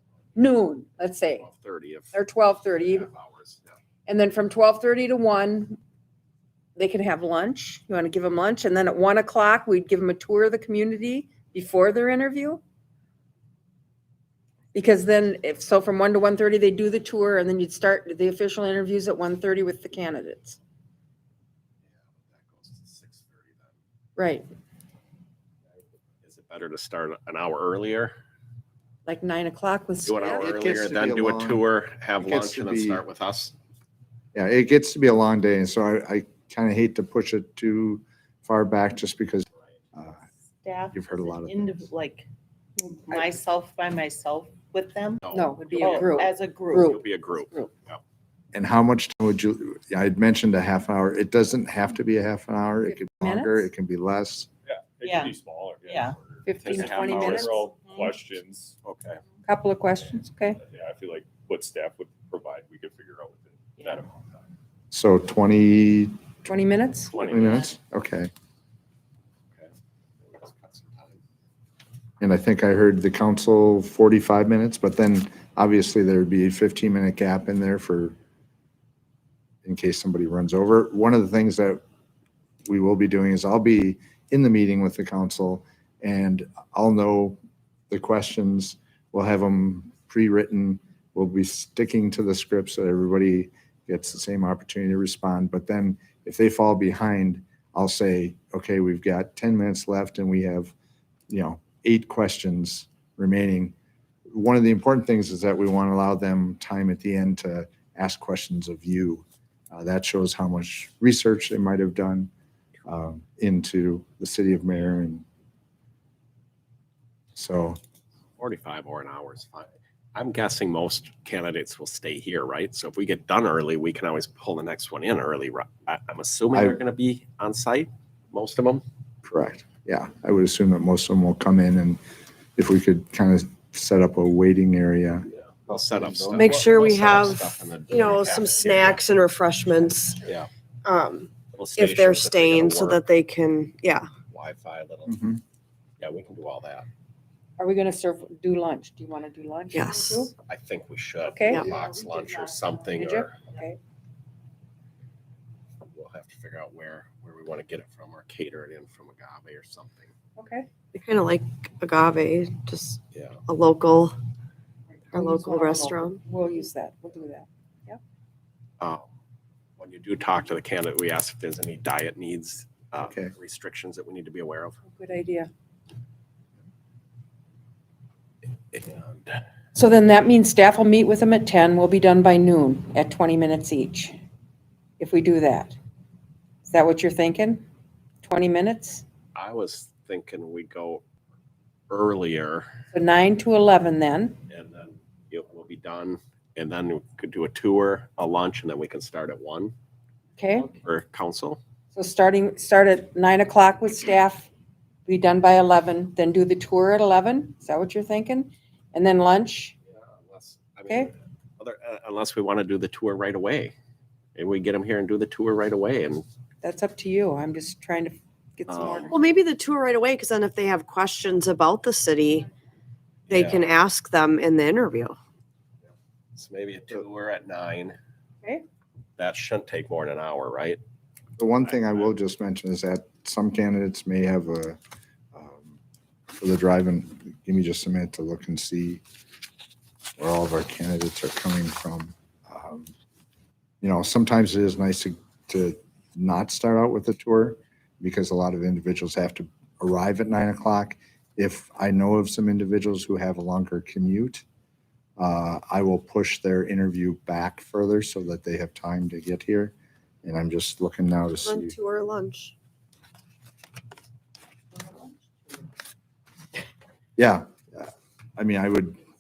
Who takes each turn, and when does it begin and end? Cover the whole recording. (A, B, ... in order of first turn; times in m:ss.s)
0:00.4-0:01.5 A
0:01.3-0:02.2 B
0:02.1-0:03.1 A
0:02.7-0:03.7 B
0:04.1-0:05.8 A
0:06.8-0:12.6 A
0:14.7-0:20.6 A
0:21.9-0:23.8 B
0:24.2-0:24.5 A
0:26.2-0:28.1 B
0:29.1-0:30.5 A
0:30.0-0:33.6 B
0:30.3-0:31.6 C
0:32.2-0:33.0 C
0:34.4-0:40.2 C
0:40.6-0:42.3 D
0:40.9-0:41.9 C
0:42.8-0:45.2 D
0:43.1-0:43.4 A
0:45.2-0:48.0 B
0:45.3-0:47.0 A
0:45.8-0:47.0 D
0:48.5-0:54.5 C
0:52.9-0:53.7 A
0:54.7-0:58.8 E
0:55.0-0:56.2 D
0:56.4-0:57.7 A
0:56.6-0:57.6 B
0:57.8-0:58.2 D
0:58.8-0:59.2 B
0:59.5-1:00.6 A
1:00.6-1:04.4 E
1:04.9-1:06.2 C
1:06.5-1:07.1 A
1:07.1-1:07.7 B
1:07.2-1:08.3 C
1:09.5-1:11.2 B
1:12.2-1:18.2 C
1:19.6-1:21.8 C
1:22.7-1:27.4 C
1:27.9-1:40.7 C
1:41.3-1:43.8 C
1:44.3-1:52.3 C
1:52.9-1:55.2 C
1:57.4-1:57.8 C
1:58.4-2:08.8 B
2:06.5-2:06.8 C
2:09.2-2:12.0 C
2:12.6-2:16.7 C
2:15.7-2:19.1 B
2:16.4-2:20.2 F
2:20.8-2:24.1 F
2:21.5-2:23.0 B
2:24.3-2:25.2 B
2:25.1-2:25.4 C
2:26.0-2:26.9 B
2:27.6-2:30.3 A
2:29.7-2:30.3 F
2:30.4-2:33.4 B
2:31.2-2:31.7 A
2:32.9-2:33.8 A
2:35.9-2:40.1 B
2:40.4-2:40.7 A
2:40.9-2:44.2 F
2:43.1-2:43.4 B
2:45.1-2:48.0 A
2:45.1-2:46.2 F
2:48.8-2:49.1 B
2:49.8-2:54.8 B
2:53.1-2:53.3 C
2:54.9-2:55.5 A
2:58.7-2:59.4 B
2:59.8-3:04.2 A
3:05.0-3:05.8 A
3:06.6-3:07.6 A
3:08.2-3:09.0 A
3:09.4-3:11.0 B
3:11.9-3:12.7 B
3:12.9-3:14.4 A
3:14.5-3:19.7 B
3:20.4-3:20.7 A
3:20.6-3:21.6 B
3:21.9-3:24.5 A
3:25.1-3:29.8 A
3:30.0-3:33.8 B
3:34.4-3:36.3 B
3:36.6-3:39.2 A
3:38.7-3:39.2 B
3:39.1-3:42.5 F
3:43.3-3:43.7 B
3:43.3-3:45.2 F
3:46.4-3:48.0 B
3:49.2-3:50.8 B
3:51.4-3:54.8 C
3:55.3-3:55.8 C
3:56.3-3:59.0 C
4:00.2-4:02.9 C
4:03.8-4:14.4 C
4:15.2-4:21.8 C
4:21.4-4:22.5 F
4:27.2-4:29.0 C